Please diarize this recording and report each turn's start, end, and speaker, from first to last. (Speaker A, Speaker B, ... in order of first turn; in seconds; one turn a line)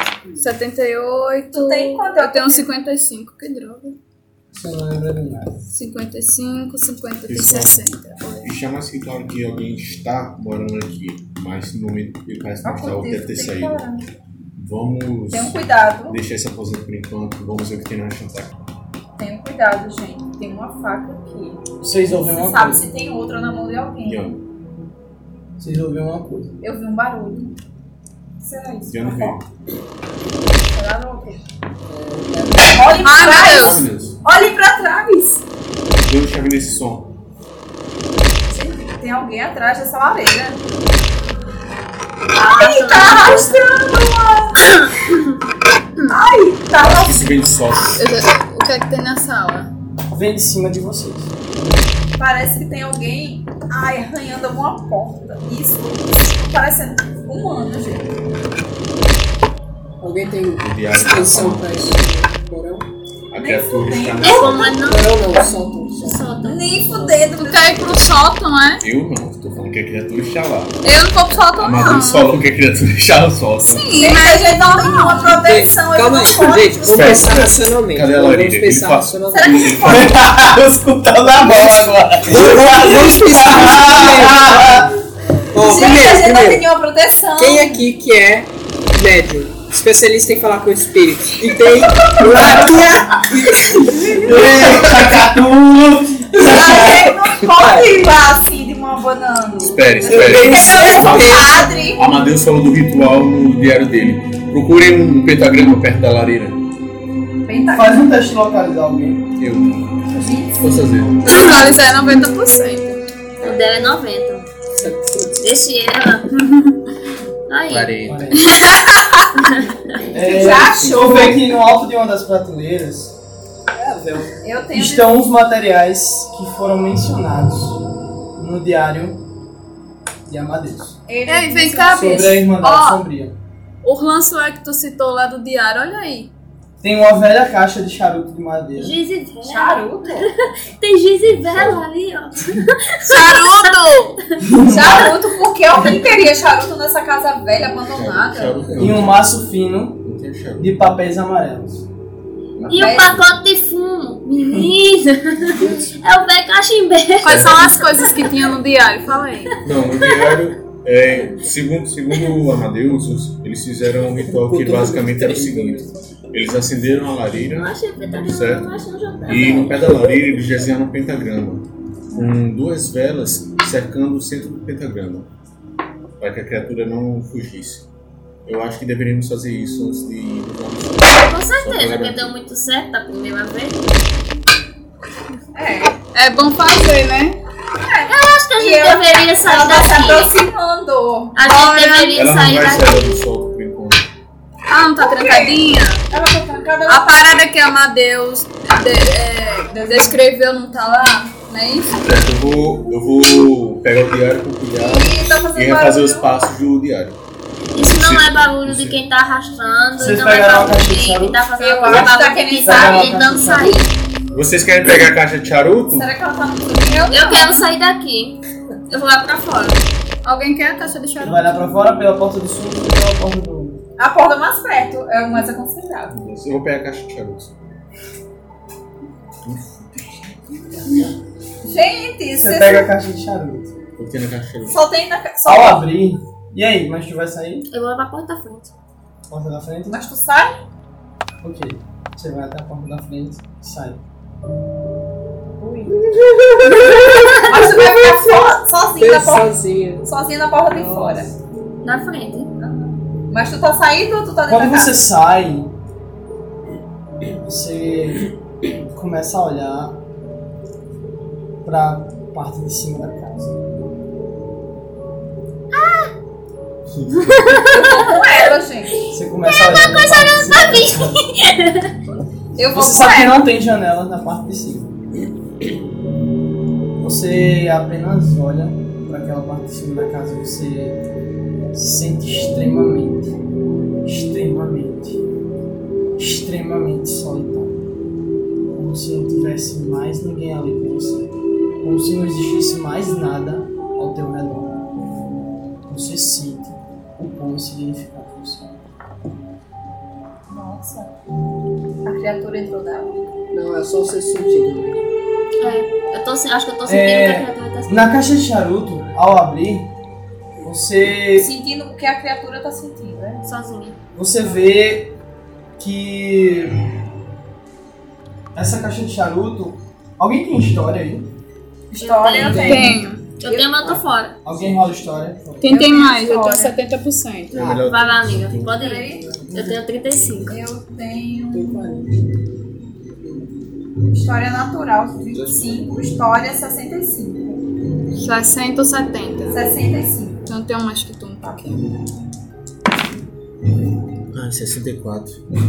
Speaker A: 0.4-4.0
Speaker B: 1.5-2.7
Speaker C: 4.5-5.6
Speaker A: 5.7-8.5
Speaker D: 7.3-7.8
Speaker D: 8.4-13.8
Speaker B: 12.6-14.1
Speaker D: 14.6-18.6
Speaker B: 15.3-16.2
Speaker B: 19.2-24.2
Speaker C: 21.8-22.8
Speaker D: 24.0-24.4
Speaker C: 25.6-26.5
Speaker B: 26.6-27.6
Speaker B: 28.4-29.4
Speaker D: 28.9-29.4
Speaker B: 30.7-31.4
Speaker E: 31.9-33.1
Speaker B: 32.5-35.5
Speaker A: 33.0-33.8
Speaker D: 33.5-34.2
Speaker D: 36.0-37.1
Speaker B: 38.5-40.6
Speaker F: 42.4-43.7
Speaker B: 42.4-44.6
Speaker B: 46.1-47.3
Speaker D: 46.8-48.1
Speaker A: 48.0-49.7
Speaker C: 50.1-51.3
Speaker B: 52.2-58.1
Speaker E: 60.0-62.9
Speaker D: 60.6-62.0
Speaker D: 63.3-64.8
Speaker B: 63.4-64.8
Speaker F: 64.2-65.3
Speaker E: 64.8-66.2
Speaker F: 66.0-67.2
Speaker B: 66.5-68.0
Speaker A: 67.4-68.8
Speaker D: 68.8-74.0
Speaker A: 70.8-72.3
Speaker A: 73.6-75.4
Speaker B: 74.0-77.4
Speaker E: 75.3-79.8
Speaker D: 76.8-84.9
Speaker B: 79.3-80.2
Speaker C: 81.4-81.9
Speaker E: 82.3-84.8
Speaker C: 84.3-84.8
Speaker E: 85.5-86.7
Speaker B: 85.6-87.9
Speaker E: 87.4-94.3
Speaker D: 92.2-92.6
Speaker C: 94.2-95.8
Speaker D: 94.2-96.2
Speaker B: 96.4-102.0
Speaker D: 99.6-106.6
Speaker E: 100.0-101.5
Speaker C: 100.3-100.9
Speaker B: 107.5-108.1
Speaker C: 107.7-109.3
Speaker D: 109.4-109.8
Speaker B: 110.1-110.6
Speaker D: 110.5-111.7
Speaker A: 111.2-113.0
Speaker F: 113.4-114.5
Speaker D: 113.4-113.7
Speaker E: 114.8-115.5
Speaker F: 115.4-116.4
Speaker F: 117.5-118.2
Speaker D: 117.7-118.5
Speaker C: 118.1-118.5
Speaker A: 118.4-119.0
Speaker F: 119.4-119.8
Speaker C: 120.1-123.2
Speaker B: 120.2-121.4
Speaker D: 120.6-121.5
Speaker E: 123.7-124.3
Speaker B: 124.4-125.2
Speaker C: 124.7-127.8
Speaker C: 128.4-129.2
Speaker C: 130.3-131.0
Speaker B: 131.1-132.4
Speaker A: 131.3-133.0
Speaker C: 131.9-133.4
Speaker A: 133.8-136.3
Speaker C: 136.8-139.0
Speaker F: 138.8-144.5
Speaker B: 139.4-140.3
Speaker D: 141.5-141.8
Speaker A: 143.0-144.2
Speaker C: 144.4-145.1
Speaker B: 144.7-148.6
Speaker C: 145.7-146.1
Speaker D: 147.9-149.3
Speaker C: 148.8-150.0
Speaker D: 150.0-150.7
Speaker C: 150.6-151.9
Speaker D: 152.6-153.3
Speaker F: 152.7-158.1
Speaker B: 152.7-153.2
Speaker E: 155.6-155.9
Speaker A: 157.2-159.6
Speaker D: 159.6-168.7
Speaker F: 160.0-160.4
Speaker E: 164.2-166.0
Speaker F: 167.4-170.4
Speaker D: 169.2-175.3
Speaker B: 172.1-172.4
Speaker D: 176.2-177.9
Speaker D: 178.5-182.3
Speaker F: 181.1-184.0
Speaker B: 185.5-186.0
Speaker A: 186.1-187.4
Speaker B: 187.8-191.4
Speaker F: 188.1-190.3
Speaker F: 191.3-193.2
Speaker A: 191.4-192.2
Speaker D: 192.1-194.1
Speaker A: 194.7-196.0
Speaker B: 195.0-197.4
Speaker A: 196.9-202.0
Speaker B: 199.8-200.1
Speaker D: 202.0-207.2
Speaker B: 204.8-206.3
Speaker F: 207.8-213.9
Speaker D: 207.8-209.0
Speaker C: 210.0-213.9
Speaker B: 211.6-213.2
Speaker D: 214.3-216.1
Speaker B: 215.9-217.7
Speaker F: 217.1-219.8
Speaker A: 220.2-221.5
Speaker C: 221.2-223.8
Speaker B: 224.0-226.2
Speaker D: 226.1-227.6
Speaker D: 229.4-231.0
Speaker B: 231.6-232.9
Speaker C: 232.4-233.7
Speaker D: 234.0-234.8
Speaker B: 234.7-235.8
Speaker C: 235.5-237.7
Speaker F: 237.7-238.7
Speaker C: 239.3-240.0
Speaker B: 239.9-240.6
Speaker C: 241.4-244.0
Speaker B: 245.6-246.0
Speaker E: 245.9-250.1
Speaker B: 247.4-251.3
Speaker E: 250.7-251.3
Speaker F: 251.8-252.5
Speaker B: 252.6-255.1
Speaker C: 254.5-255.7
Speaker C: 257.4-260.0
Speaker C: 261.6-263.6
Speaker F: 265.7-266.1
Speaker D: 266.9-267.6
Speaker F: 267.1-268.2
Speaker B: 267.7-269.0
Speaker C: 269.1-271.3
Speaker F: 269.4-272.2
Speaker B: 272.6-273.4
Speaker C: 272.7-275.0
Speaker C: 277.0-281.0
Speaker C: 281.7-283.3
Speaker C: 284.0-285.2
Speaker C: 286.2-287.8
Speaker C: 288.7-294.8
Speaker C: 295.9-298.8
Speaker B: 300.5-301.1
Speaker B: 302.1-303.2
Speaker E: 303.5-305.0
Speaker F: 305.6-308.2
Speaker C: 306.9-309.9
Speaker C: 310.6-311.5
Speaker B: 311.3-313.4
Speaker F: 313.4-314.0
Speaker C: 314.1-315.2
Speaker C: 315.8-316.9
Speaker C: 318.5-321.3
Speaker B: 321.9-324.0
Speaker F: 322.0-324.4
Speaker E: 322.5-322.9
Speaker A: 322.5-323.2
Speaker C: 324.4-325.9
Speaker A: 325.6-327.6
Speaker B: 325.6-326.8
Speaker D: 327.5-328.8
Speaker F: 327.8-330.6
Speaker B: 328.7-329.3
Speaker B: 330.5-331.8
Speaker E: 331.5-332.2
Speaker B: 334.1-337.6
Speaker D: 335.3-336.0
Speaker A: 338.1-339.7
Speaker B: 339.5-340.5
Speaker A: 340.5-341.9
Speaker D: 344.3-345.4